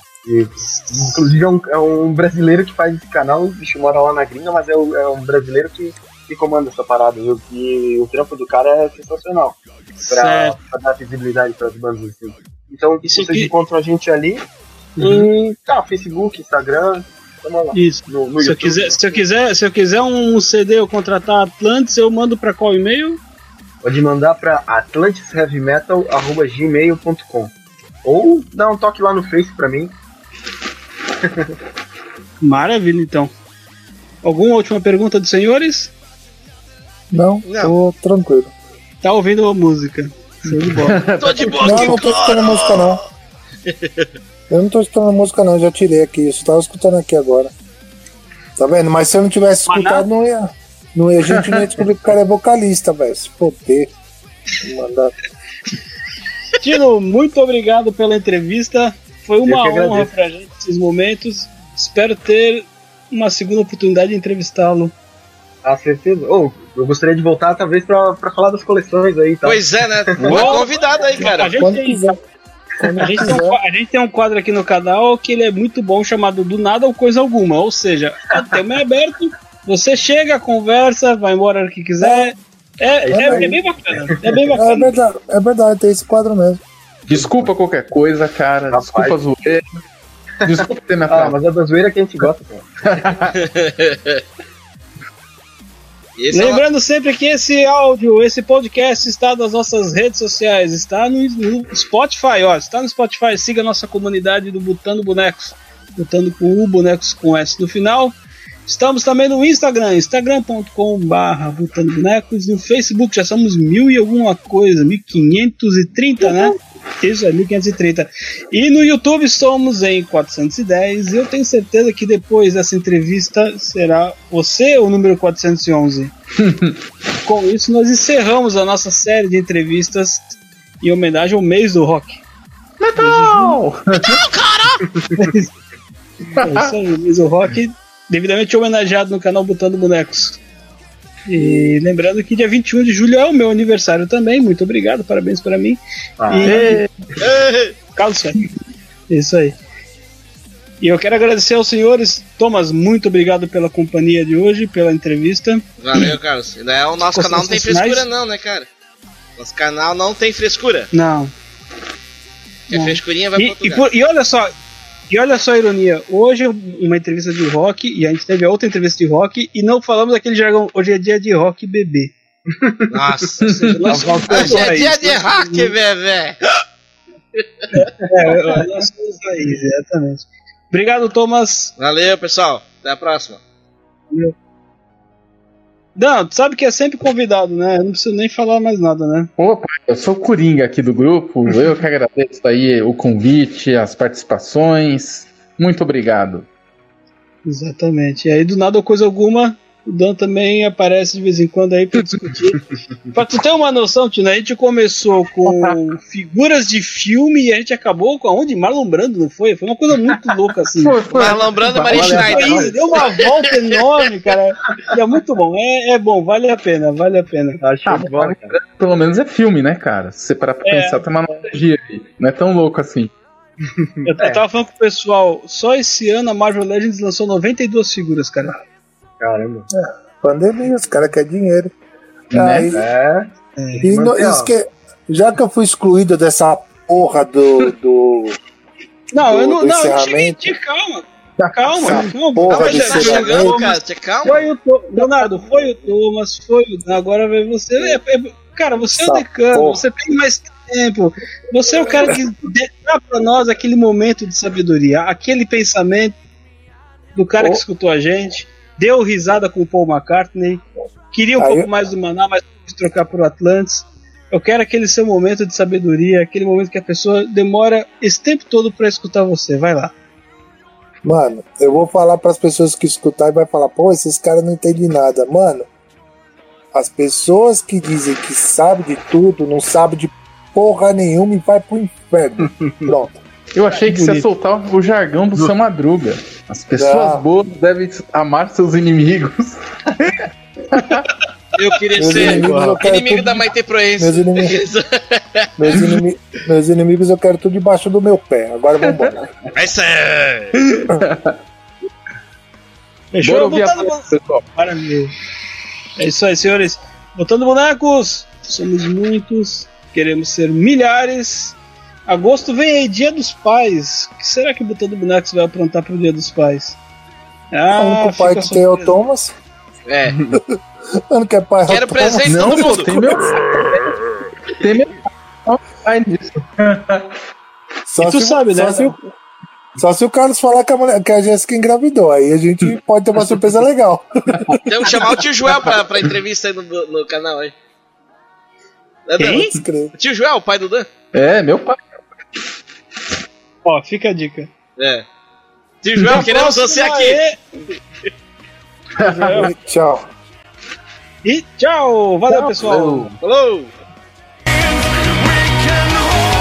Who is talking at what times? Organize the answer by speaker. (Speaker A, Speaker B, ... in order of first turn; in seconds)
Speaker A: 0.2-14.4, 15.0-19.2, 23.8-27.5, 28.0-29.9, 31.2-31.5, 41.5-42.0, 59.4-60.1, 65.6-70.7, 73.1-73.4, 83.0-84.4, 87.1-87.5, 88.7-89.1, 90.5-92.7, 134.9-135.3, 146.2-146.7, 172.6-173.3, 173.9-174.7, 211.8-212.8, 217.6-218.5, 223.8-224.4, 229.2-229.7, 232.7-234.5
Speaker B: 10.0-10.6, 13.0-13.5, 15.0-15.3, 17.7-23.2, 32.4-33.3, 34.2-35.9, 39.0-41.0, 49.7-50.0, 56.6-64.9, 70.2-72.2, 73.0-84.9, 96.3-126.1, 127.2-132.2, 132.9-133.6, 135.2-135.5, 136.4-140.4, 141.3-146.9, 147.9-148.4, 149.1-149.6, 150.8-155.6, 157.1-158.1, 160.9-161.3, 162.7-164.5, 165.1-172.1, 173.4-175.7, 177.7-181.7, 185.9-189.3, 197.4-202.6, 203.1-211.3, 212.2-217.6, 220.6-221.0, 224.0-228.6, 233.6-233.8, 239.1-256.2, 257.1-269.9, 283.8-284.3, 303.1-305.1, 306.0-316.8, 317.5-318.9, 328.0-329.0, 339.2-339.5, 343.6-344.5, 346.0-347.4, 349.0-349.5, 351.2-353.1
Speaker C: 37.1-38.5, 41.6-43.0, 44.5-47.5, 48.6-53.9, 54.6-55.1, 71.2-72.2, 72.8-73.6, 82.0-82.3, 83.1-83.6, 84.5-86.6, 229.7-231.7, 232.3-232.8, 233.8-238.4, 239.2-240.6, 241.7-243.6, 248.9-249.8, 261.4-261.7, 271.0-275.6, 276.7-283.2, 286.8-287.2, 292.0-293.5, 294.0-294.6, 295.6-299.2, 317.7-319.3, 320.3-320.6, 321.1-323.4, 327.9-328.9, 329.8-335.0, 339.2-339.9, 349.3-350.1
Speaker D: 37.4-37.7, 41.2-43.0, 43.7-44.1, 69.4-71.6, 93.4-94.2, 96.2-96.6, 134.0-134.8, 147.2-147.7, 155.8-158.7, 159.4-160.9, 162.7-163.9, 172.9-176.4, 181.8-183.4, 211.1-213.4, 242.5-244.4, 291.6-295.7, 299.5-300.5, 319.9-320.3, 321.7-323.4, 334.6-337.5, 339.1-340.9, 344.8-345.0, 345.8-347.2, 353.2-353.7
Speaker E: 40.7-42.0, 51.3-51.6, 87.1-89.6, 90.4-91.3, 92.8-93.4, 126.4-126.8, 132.8-134.2, 136.4-136.7, 146.4-146.9, 173.4-173.8, 189.4-196.5, 205.4-205.8, 210.8-212.2, 217.8-223.1, 232.3-232.8, 283.5-291.1, 292.2-292.5, 298.8-299.1, 300.5-301.4, 303.2-304.4, 322.2-323.9, 324.6-327.1, 341.1-341.8, 349.0-349.5, 352.3-353.2